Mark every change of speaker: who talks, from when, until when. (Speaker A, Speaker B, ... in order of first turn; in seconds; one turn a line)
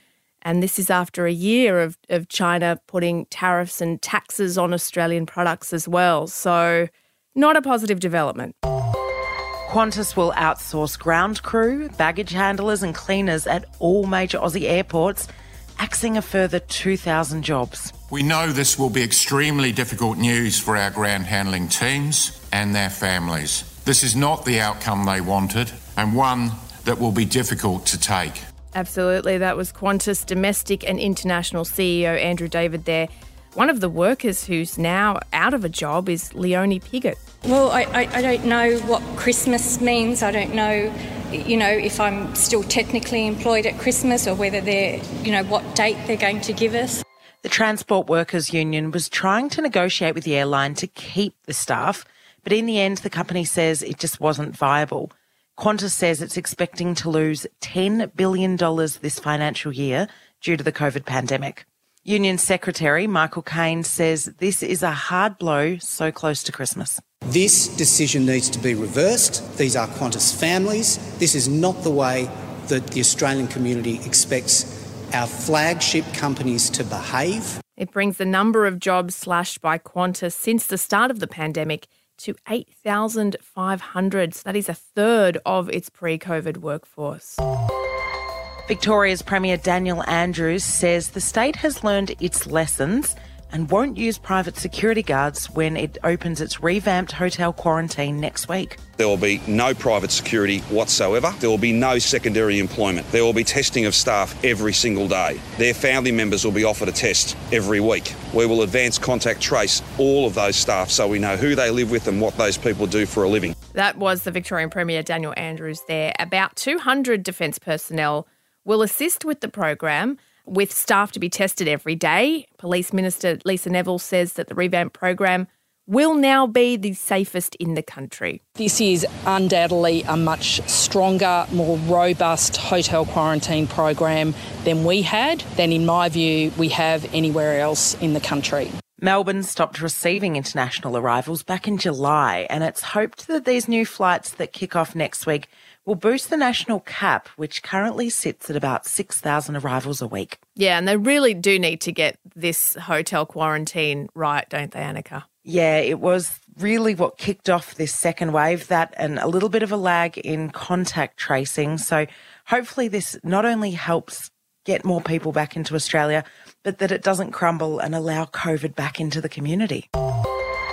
Speaker A: 0.4-8.5
Speaker B: 9.7-15.3
Speaker B: 15.8-17.9
Speaker C: 18.1-28.4
Speaker A: 28.7-37.2
Speaker D: 37.4-47.0
Speaker B: 47.4-67.0
Speaker E: 67.3-77.5
Speaker A: 77.8-87.4
Speaker B: 88.7-98.8
Speaker F: 99.0-113.5
Speaker A: 113.7-128.4
Speaker G: 128.6-138.8
Speaker B: 139.0-150.4
Speaker A: 150.6-155.2
Speaker B: 155.4-169.9